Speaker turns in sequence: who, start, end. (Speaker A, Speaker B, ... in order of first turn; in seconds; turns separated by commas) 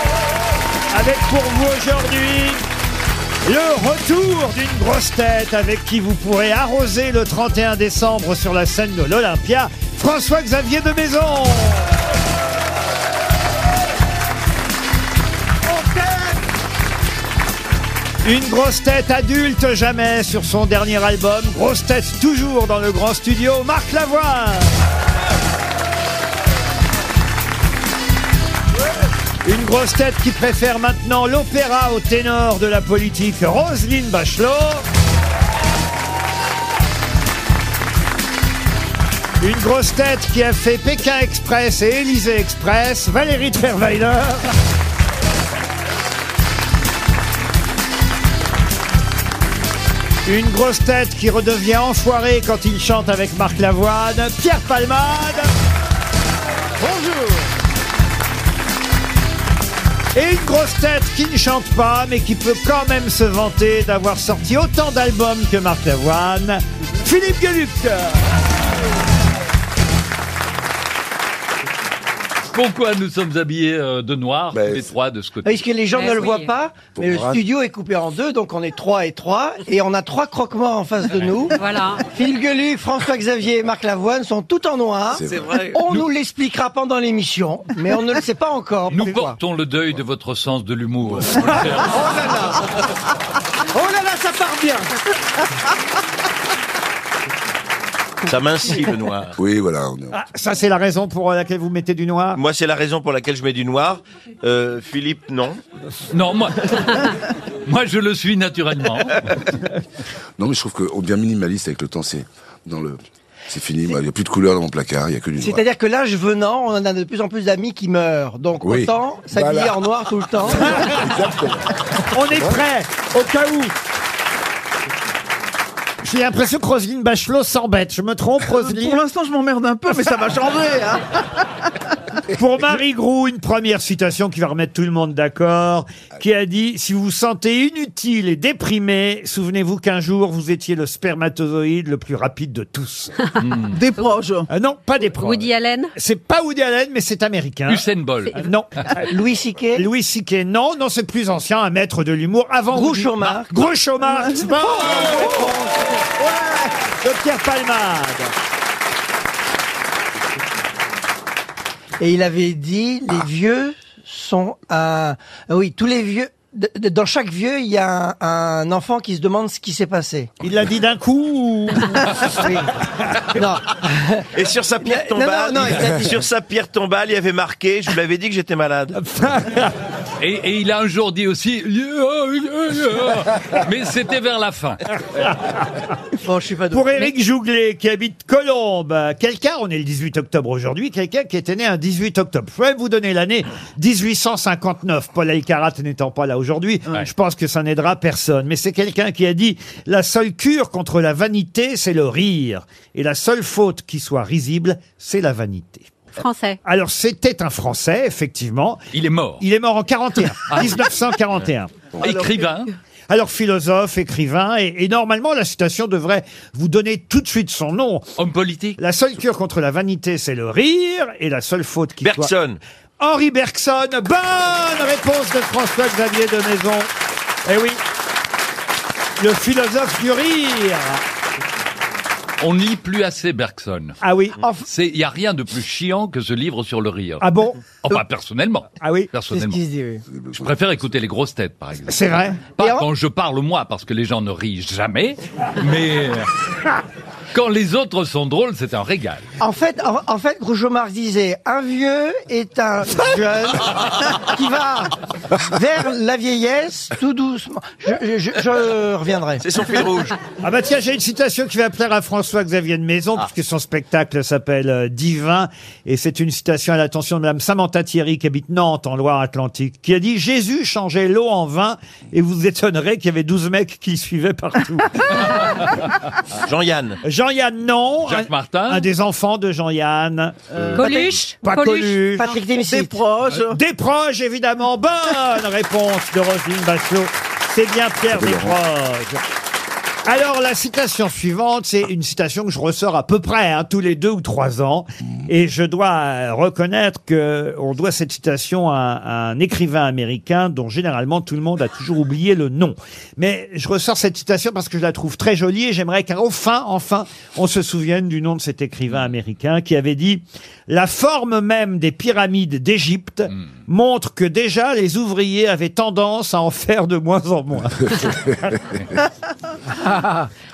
Speaker A: 0.9-2.6, Speaker A: 3.5-11.9, Speaker A: 15.7-16.4, Speaker A: 18.2-24.8, Speaker A: 29.4-34.9, Speaker A: 39.4-44.6, Speaker A: 50.3-55.5, Speaker A: 56.9-57.2, Speaker A: 60.1-68.2, Speaker B: 72.5-75.7, Speaker C: 74.5-74.9, Speaker D: 75.5-81.6, Speaker E: 75.9-76.5, Speaker C: 77.0-77.4, Speaker E: 81.5-82.0, Speaker D: 82.1-89.4, Speaker C: 85.2-85.5, Speaker F: 85.2-85.8, Speaker B: 88.9-92.2, Speaker A: 91.9-92.6, Speaker A: 93.7-94.9, Speaker F: 98.3-99.4, Speaker C: 99.4-100.2, Speaker A: 100.1-102.4, Speaker F: 102.4-105.6, Speaker B: 106.1-107.1, Speaker B: 107.7-109.2, Speaker C: 110.4-115.6, Speaker D: 115.4-120.8, Speaker C: 118.6-119.8, Speaker C: 120.4-121.7, Speaker A: 120.7-121.1, Speaker A: 122.1-123.7, Speaker C: 122.3-122.6, Speaker A: 126.0-129.0, Speaker G: 128.4-131.2, Speaker A: 132.3-143.1, Speaker B: 143.4-143.8, Speaker G: 143.7-144.5, Speaker A: 144.5-149.1, Speaker E: 145.1-145.9, Speaker B: 147.7-148.5, Speaker D: 149.1-149.9, Speaker A: 149.8-158.3, Speaker D: 152.7-153.6, Speaker G: 154.0-154.6, Speaker D: 162.0-170.3, Speaker A: 170.4-172.7, Speaker D: 173.3-174.3, Speaker F: 174.3-179.0, Speaker D: 174.8-176.1, Speaker A: 178.9-179.7, Speaker B: 180.2-184.8, Speaker A: 185.2-185.6, Speaker D: 186.2-187.1, Speaker A: 186.7-205.9, Speaker E: 206.2-206.6, Speaker A: 206.6-208.8, Speaker B: 208.9-209.4, Speaker A: 209.4-211.8, Speaker B: 210.5-210.8, Speaker B: 212.0-212.7, Speaker G: 212.0-212.7, Speaker A: 213.1-218.1, Speaker B: 218.2-218.8, Speaker A: 218.8-222.3, Speaker F: 222.0-222.6, Speaker A: 223.0-226.9, Speaker A: 227.4-227.8, Speaker A: 229.2-231.0, Speaker B: 232.4-234.0, Speaker A: 234.0-234.4, Speaker D: 234.4-234.7, Speaker B: 234.7-237.3, Speaker A: 237.2-238.0, Speaker B: 237.8-239.6, Speaker A: 238.8-239.1, Speaker D: 239.3-240.0, Speaker B: 240.4-246.3, Speaker A: 241.9-242.4, Speaker D: 242.6-242.9, Speaker B: 247.3-249.3, Speaker D: 249.4-259.5, Speaker F: 259.4-260.2, Speaker A: 260.4-275.6, Speaker F: 276.5-277.0, Speaker A: 277.0-282.3, Speaker B: 278.1-278.9, Speaker G: 280.5-280.9, Speaker E: 280.7-282.4, Speaker D: 282.2-283.0, Speaker G: 282.7-283.6, Speaker A: 283.3-289.2, Speaker C: 288.1-288.6, Speaker A: 290.1-318.5, Speaker E: 319.9-320.1